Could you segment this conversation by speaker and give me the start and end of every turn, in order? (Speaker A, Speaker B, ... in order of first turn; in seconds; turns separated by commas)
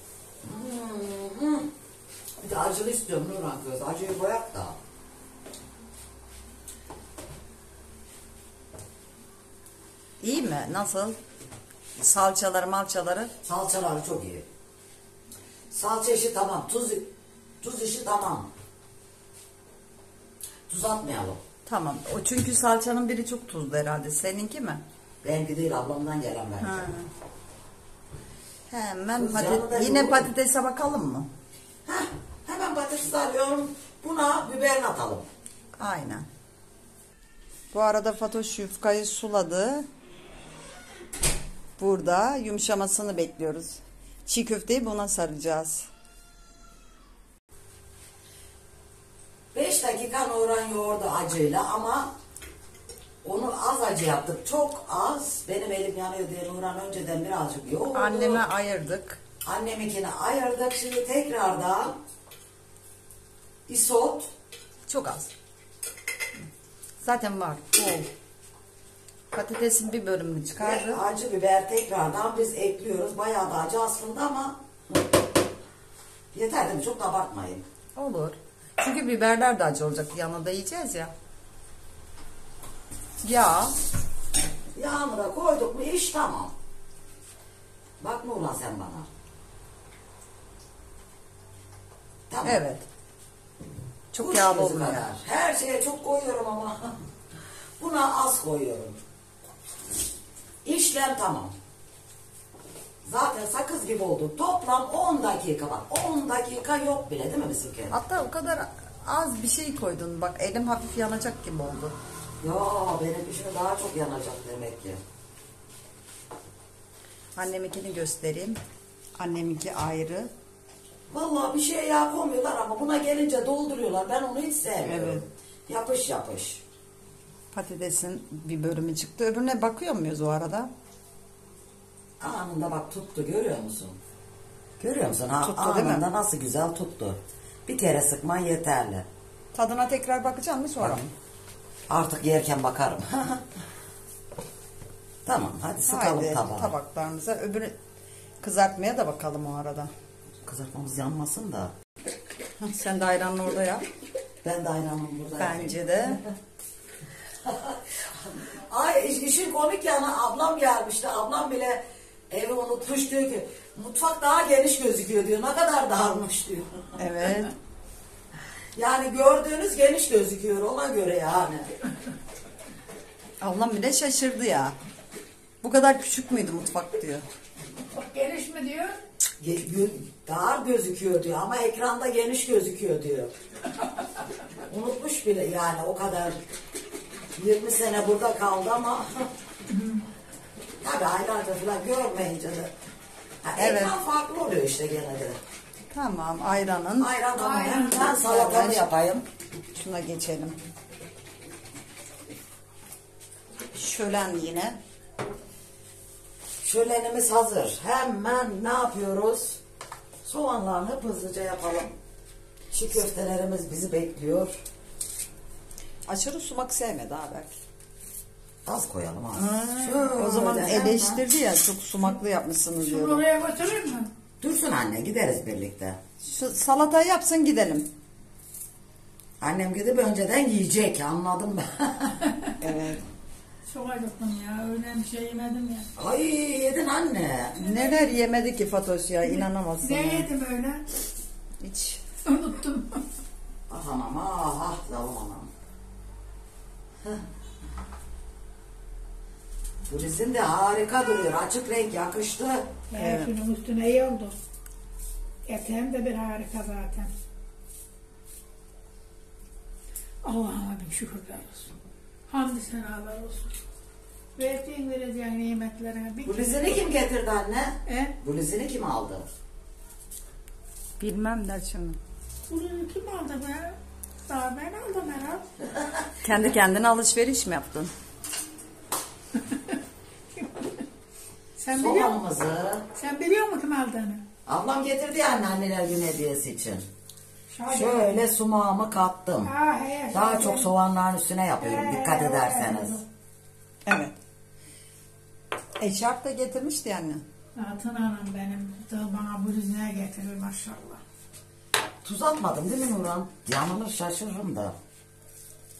Speaker A: 0.4-1.7, Speaker A: 2.4-4.8, Speaker B: 10.2-11.2, Speaker B: 12.0-13.3, Speaker A: 13.4-14.4, Speaker A: 15.7-17.1, Speaker A: 17.6-18.5, Speaker A: 20.7-21.4, Speaker B: 21.6-24.8, Speaker A: 25.2-26.9, Speaker B: 26.6-27.1, Speaker B: 28.7-31.3, Speaker A: 29.1-30.3, Speaker A: 31.9-35.2, Speaker B: 35.7-36.3, Speaker B: 37.7-39.9, Speaker B: 41.8-45.9, Speaker A: 49.5-52.1, Speaker A: 53.2-58.4, Speaker B: 57.9-59.2, Speaker A: 59.4-62.0, Speaker A: 63.7-64.3, Speaker B: 64.9-65.3, Speaker B: 67.0-68.1, Speaker B: 69.3-71.0, Speaker A: 70.6-74.6, Speaker A: 76.3-77.7, Speaker B: 78.0-81.1, Speaker B: 83.2-83.7, Speaker A: 84.7-86.5, Speaker A: 88.0-89.1, Speaker A: 92.3-92.6, Speaker B: 92.4-92.8, Speaker B: 94.1-95.0, Speaker A: 94.2-97.0, Speaker A: 97.8-99.0, Speaker A: 100.6-101.5, Speaker A: 103.0-107.9, Speaker B: 107.9-111.9, Speaker A: 112.4-115.0, Speaker B: 117.4-118.6, Speaker B: 119.2-120.3, Speaker A: 121.1-126.6, Speaker B: 124.8-125.2, Speaker B: 127.5-130.7, Speaker A: 132.2-134.0, Speaker A: 134.8-139.1, Speaker B: 135.4-136.0, Speaker B: 139.5-141.1, Speaker A: 141.9-143.4, Speaker A: 145.2-146.7, Speaker B: 145.9-147.7, Speaker B: 148.4-149.9, Speaker A: 150.4-151.7, Speaker B: 152.6-153.8, Speaker A: 154.4-155.8, Speaker B: 155.4-156.2, Speaker A: 157.4-167.0, Speaker B: 167.0-167.5, Speaker A: 168.7-171.7, Speaker B: 173.4-174.8, Speaker B: 175.6-177.2, Speaker C: 177.9-179.0, Speaker A: 179.4-183.3, Speaker A: 184.7-186.4, Speaker A: 187.3-189.3, Speaker A: 190.8-192.7, Speaker A: 193.4-195.4, Speaker B: 193.6-193.9, Speaker B: 195.9-197.2, Speaker A: 197.0-199.2, Speaker C: 197.3-198.0, Speaker B: 197.8-198.8, Speaker B: 199.7-200.6, Speaker B: 203.7-204.8, Speaker A: 206.6-209.6, Speaker A: 210.2-211.9, Speaker A: 212.7-214.6, Speaker B: 216.1-217.6, Speaker A: 218.7-221.2, Speaker B: 219.3-223.2, Speaker C: 222.8-224.1, Speaker A: 224.4-226.0, Speaker B: 226.2-227.9, Speaker A: 229.4-232.3, Speaker B: 232.6-233.0, Speaker C: 233.7-235.9, Speaker A: 235.9-237.6, Speaker C: 237.6-238.1, Speaker B: 237.6-240.3, Speaker C: 239.3-240.8, Speaker B: 241.6-242.0, Speaker C: 242.2-243.0, Speaker A: 243.7-245.5, Speaker A: 249.9-252.7, Speaker C: 252.9-254.3, Speaker B: 252.9-253.3, Speaker C: 255.4-257.1, Speaker C: 260.2-261.7, Speaker C: 262.3-263.5, Speaker C: 264.4-266.9, Speaker A: 266.2-269.2, Speaker C: 267.9-268.1, Speaker B: 271.0-272.0, Speaker C: 272.5-275.4, Speaker B: 276.2-277.9, Speaker C: 280.4-280.8, Speaker C: 281.6-282.2, Speaker A: 281.7-282.9, Speaker C: 282.9-284.2, Speaker A: 284.4-286.9, Speaker C: 287.5-288.2, Speaker A: 287.7-289.5, Speaker C: 289.4-290.7, Speaker A: 290.1-293.0, Speaker C: 291.6-293.0, Speaker B: 293.9-294.1, Speaker B: 295.8-297.2, Speaker C: 297.6-301.0, Speaker A: 302.0-304.7